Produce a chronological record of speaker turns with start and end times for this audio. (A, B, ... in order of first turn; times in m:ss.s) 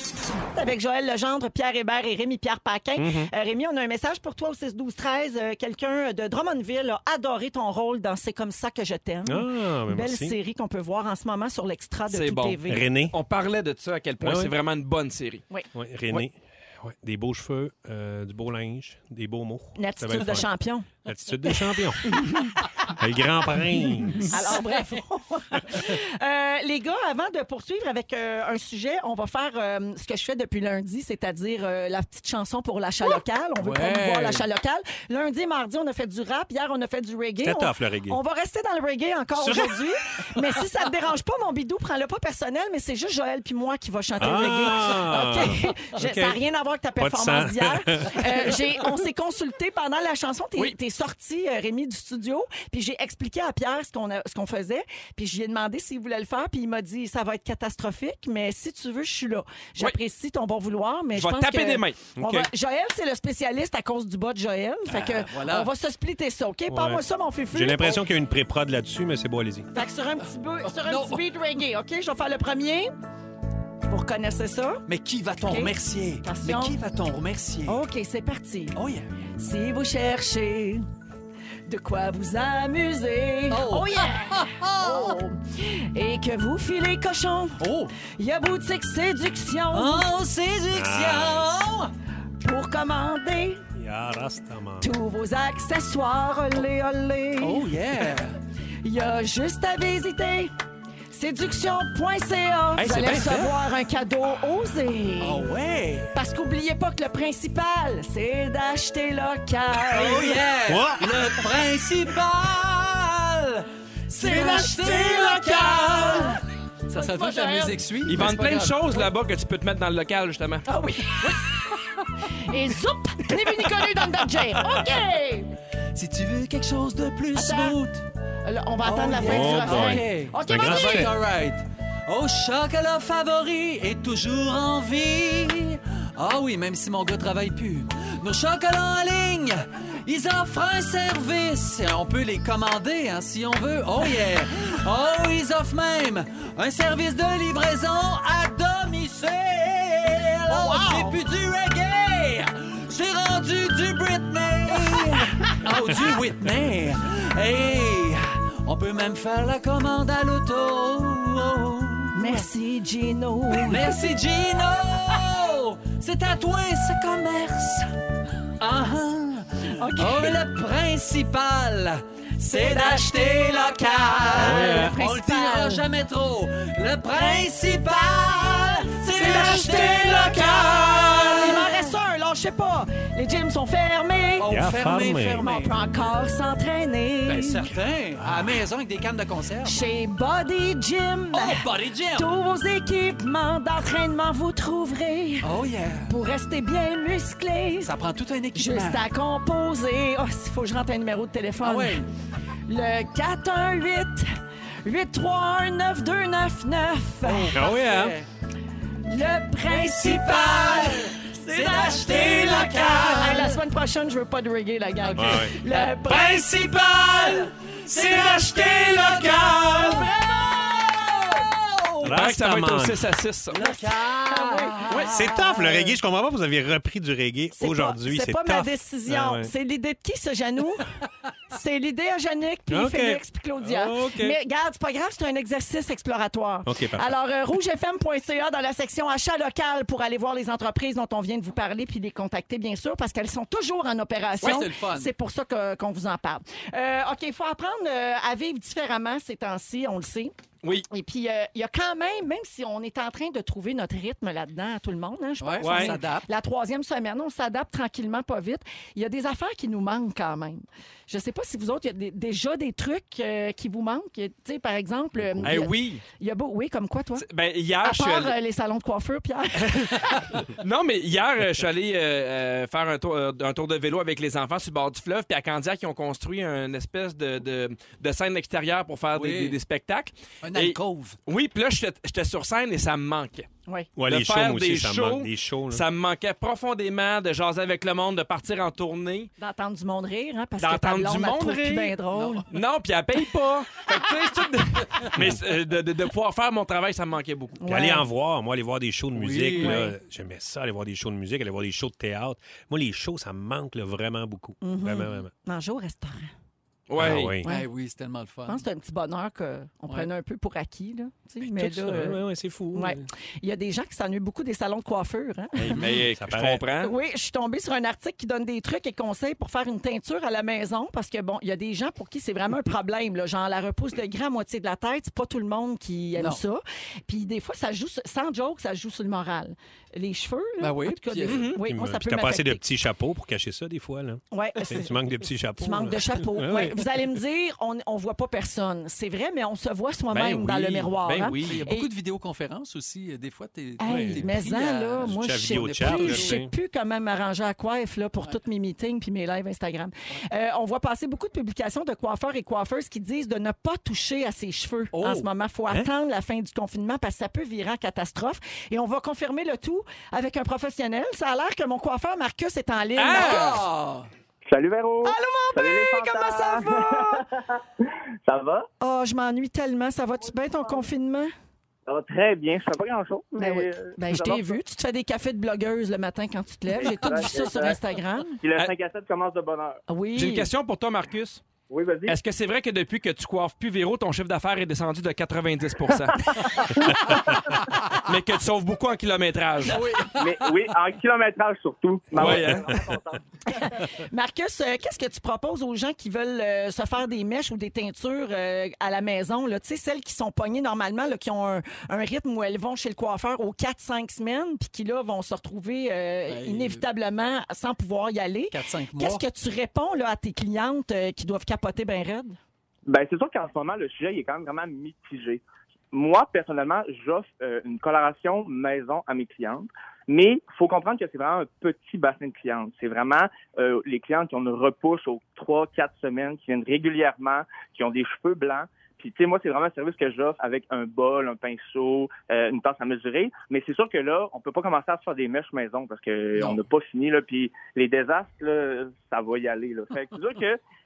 0:00.5-0:12.8 A
0:03.0-0:03.3 B
0:09.2-0:10.4 C
0:12.1-0:15.4 B
0:12.7-0:13.2 C
0:14.2-0:14.5 C
0:15.7-0:22.3 C
0:19.8-0:20.9 A
0:21.4-0:22.5 A
0:22.8-0:24.4 C
0:24.3-1:08.0 A
0:33.1-0:34.4 D
0:37.4-0:38.2 C
0:39.4-0:39.8 C
0:44.2-0:46.4 C
0:47.0-0:48.6 C
1:01.2-1:02.0 B
1:02.2-1:02.5 C
1:04.9-1:05.7 D
1:06.7-1:09.7 C
1:09.7-1:12.9 A
1:10.7-1:11.3 D
1:13.8-1:14.9 A
1:14.9-1:17.8 D
1:15.5-1:16.8 A
1:17.7-1:18.8 A
1:18.8-1:19.1 D
1:19.4-1:20.8 A
1:21.7-1:30.1 A
1:23.5-1:25.2 D
1:27.6-1:27.9 D
1:29.7-1:31.9 D
1:30.7-1:31.5 C
1:32.4-1:33.6 A
1:33.8-1:34.9 C
1:34.8-1:37.7 A
1:37.4-1:38.4 D
1:38.8-1:40.5 A
1:41.1-1:45.5 A
1:42.8-1:43.5 B
1:45.2-1:46.2 D
1:46.1-1:50.5 A
1:49.9-1:59.1 D
1:50.7-1:51.1 C
1:54.1-1:56.4 A
1:56.9-1:57.8 A
1:58.1-2:00.7 B
2:00.7-2:01.7 A
2:02.4-2:05.5 A
2:05.9-2:08.0 D
2:07.4-2:07.8 A
2:08.4-2:11.1 A
2:08.8-2:42.5 D
2:09.2-2:11.1 C
2:30.5-2:31.2 A
2:42.1-2:44.0 A
2:43.5-2:48.0 D
2:48.6-3:01.9 D
2:49.8-2:50.4 A
2:52.4-2:55.8 A
2:54.3-2:55.0 C
2:59.1-3:04.5 A
3:04.4-3:05.8 D
3:04.5-3:05.4 C
3:05.4-3:07.7 A
3:07.3-3:09.8 D
3:08.2-3:08.6 C
3:09.6-3:15.5 A
3:11.3-3:12.3 D
3:15.4-3:16.2 D
3:16.1-3:17.9 A
3:17.8-3:19.0 D
3:18.5-3:22.0 A
3:21.6-3:22.1 D
3:22.7-3:27.6 A
3:27.2-3:28.3 D
3:27.5-3:28.2 C
3:29.1-3:36.7 A
3:29.7-3:33.6 D
3:35.0-3:42.2 D
3:35.2-3:35.6 C
3:39.6-3:40.2 A
3:42.0-3:43.2 C
3:42.1-3:43.6 B
3:43.5-3:45.8 D
3:43.6-3:45.0 A
3:45.1-3:49.5 C
3:47.6-3:50.9 A
3:51.5-4:10.3 A
3:52.7-3:54.4 C
3:56.6-3:57.2 C
4:04.4-4:05.1 D
4:10.9-4:27.3 A
4:15.4-4:16.3 D
4:15.6-4:15.9 B
4:25.2-4:25.6 C
4:25.4-4:26.0 B
4:27.2-4:28.4 B
4:27.8-4:30.1 A
4:30.4-4:43.5 B
4:39.1-4:39.6 D
4:40.4-4:41.2 D
4:44.0-4:45.8 C
4:44.1-4:49.3 B
4:49.4-4:52.5 A
4:50.6-4:52.0 B
4:52.1-4:52.5 D
4:52.5-4:57.6 B
4:55.2-4:55.4 C
4:57.6-4:58.1 A
4:57.7-5:05.3 C
4:59.1-4:59.8 D
4:59.6-4:59.9 A
5:04.6-5:06.3 A
5:06.9-5:07.4 B
5:07.0-5:07.5 C
5:07.4-5:08.6 D
5:08.5-5:12.2 A
5:11.4-5:13.1 C
5:12.7-5:15.8 A
5:15.6-5:16.6 C
5:15.7-5:16.9 B
5:16.8-5:32.6 A
5:26.2-5:26.4 D
5:30.6-5:31.5 D
5:31.3-5:31.6 B
5:31.6-5:37.0 C
5:34.3-5:34.9 A
5:35.6-5:41.9 A
5:40.1-5:41.6 B
5:41.4-5:46.4 D
5:43.8-6:03.6 A
5:43.9-5:44.3 C
5:45.0-5:46.5 C
5:54.9-5:55.3 D
6:03.0-6:03.6 B
6:03.1-6:04.1 D
6:04.5-6:08.7 E
6:05.0-6:07.2 A
6:08.8-6:11.3 A
6:10.6-6:10.8 E
6:11.9-6:14.6 E
6:13.4-6:18.4 A
6:16.7-6:17.8 E
6:18.4-6:19.8 E
6:19.9-6:20.5 A
6:20.2-6:21.4 B
6:21.7-6:22.2 E
6:22.1-6:26.2 B
6:26.2-6:27.1 E
6:27.9-6:29.8 B
6:29.7-6:30.6 D
6:30.2-6:33.2 E
6:32.1-6:32.7 B
6:32.2-6:32.7 C
6:33.5-6:52.4 A
6:46.3-6:46.8 D
6:48.5-6:49.2 D
6:52.9-7:20.6 E